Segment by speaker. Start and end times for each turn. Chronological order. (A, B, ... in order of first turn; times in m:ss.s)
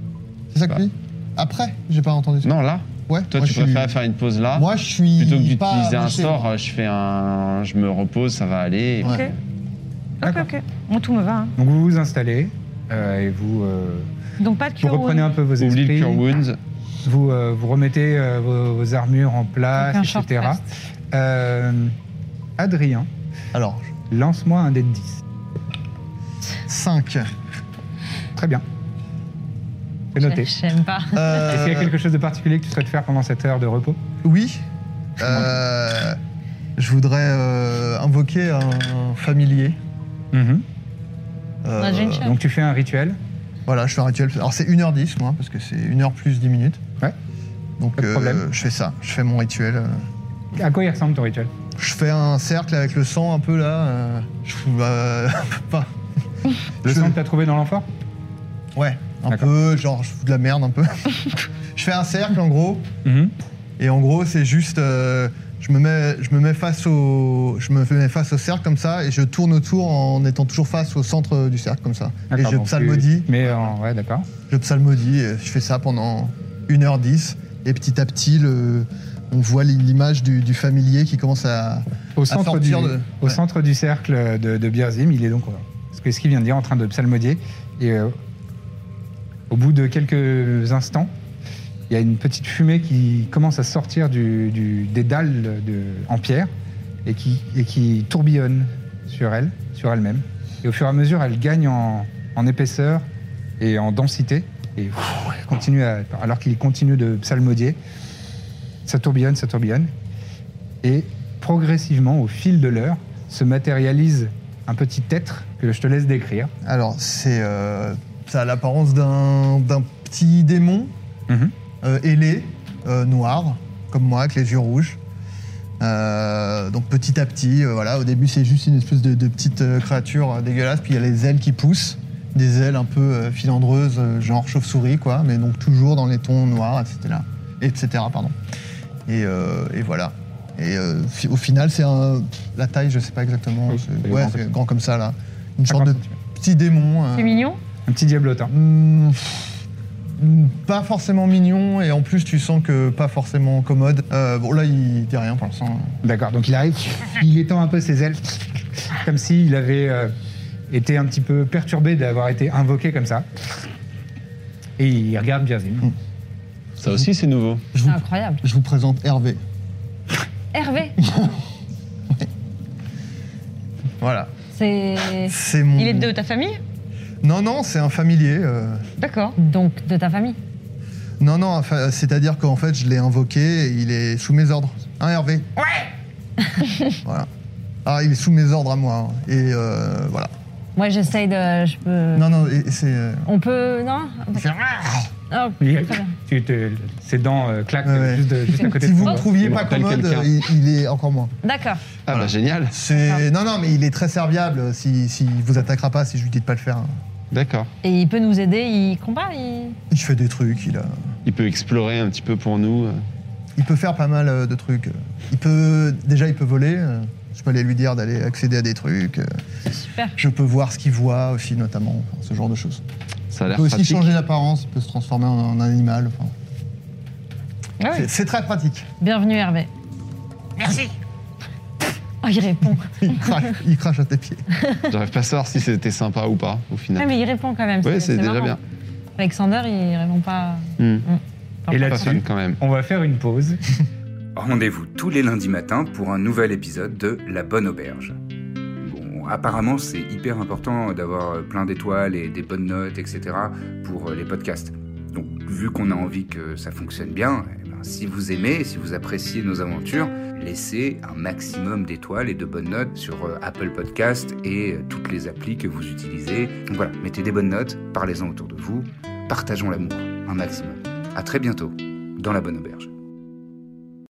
0:00.5-0:02.5 A
0:02.4-0:09.4 B
0:03.1-0:03.9 A
0:04.6-0:06.4 A
0:09.0-0:09.3 C
0:10.2-0:11.6 C
0:10.2-0:10.5 D
0:11.6-0:14.1 D
0:14.4-0:15.3 C
0:14.8-0:16.2 D
0:15.6-0:16.6 B
0:17.0-0:22.0 D
0:19.8-0:20.6 E
0:22.6-0:23.1 D
0:23.5-0:23.9 A
0:24.1-0:25.2 D
0:26.7-0:27.3 A
0:28.4-0:28.6 D
0:30.1-0:30.5 D
0:30.2-0:31.5 E
0:31.1-0:31.9 A
0:31.4-0:34.0 D
0:34.2-0:34.6 A
0:35.2-0:36.2 A
0:35.2-0:35.6 D
0:36.8-0:39.8 A
0:40.3-0:40.6 D
0:41.6-0:42.2 A
0:41.8-0:42.4 E
0:42.1-0:43.2 D
0:43.7-0:46.8 A
0:47.8-0:50.0 A
0:48.0-0:48.4 D
0:50.5-0:51.5 D
0:51.8-0:55.9 A
0:56.8-0:57.9 D
0:56.9-0:57.1 A
0:58.8-1:02.9 A
1:03.0-1:03.3 D
1:03.8-1:13.7 A
1:12.3-1:14.3 D
1:14.5-1:23.4 A
1:22.2-1:28.2 D
1:29.5-1:31.1 D
1:31.9-1:36.5 D
1:37.0-1:43.0 D
1:43.6-1:47.8 D
1:48.9-1:49.9 D
1:50.8-1:56.5 D
1:56.6-2:00.9 A
2:01.8-2:05.0 A
2:05.8-2:18.3 A
2:19.1-2:27.5 A
2:23.7-2:24.5 D
2:25.7-2:26.1 D
2:27.1-2:27.6 C
2:27.9-2:28.5 D
2:28.5-2:29.5 A
2:30.2-2:36.0 A
2:36.0-2:40.1 D
2:40.7-2:43.3 D
2:44.8-2:45.9 D
2:46.8-2:47.6 B
2:47.7-2:49.4 A
2:47.8-2:48.4 E
2:50.5-2:51.0 E
2:51.1-2:51.4 A
2:54.0-2:54.3 A
2:54.5-2:55.4 E
2:55.2-2:56.1 A
2:55.8-2:56.6 C
2:57.2-2:58.9 A
2:59.0-2:59.4 C
2:59.4-3:00.4 E
3:01.2-3:05.8 A
3:07.8-3:10.3 A
3:10.8-3:12.3 E
3:12.2-3:13.3 A
3:13.3-3:14.4 E
3:14.4-3:15.1 A
3:15.3-3:16.1 E
3:15.6-3:19.3 D
3:17.8-3:21.3 A
3:19.2-3:20.3 B
3:21.4-3:21.8 E
3:22.1-3:22.8 B
3:22.1-3:26.9 A
3:22.9-3:23.3 E
3:27.3-3:27.7 B
3:27.8-3:29.8 E
3:29.9-3:30.9 A
3:31.3-3:33.0 B
3:33.6-3:39.3 A
3:39.7-3:40.2 E
3:40.2-3:42.8 A
3:43.3-3:44.1 B
3:43.5-3:46.3 A
3:47.8-3:48.1 C
3:47.9-3:48.9 A
3:49.0-3:49.7 E
3:50.6-3:50.9 A
3:52.2-3:53.3 E
3:53.0-3:54.4 A
3:54.9-3:57.1 B
3:57.0-3:58.6 E
3:57.8-3:58.6 B
3:59.2-4:02.2 E
4:00.8-4:01.0 B
4:01.7-4:03.6 D
4:01.9-4:02.6 B
4:04.4-4:08.2 F
4:08.8-4:32.9 F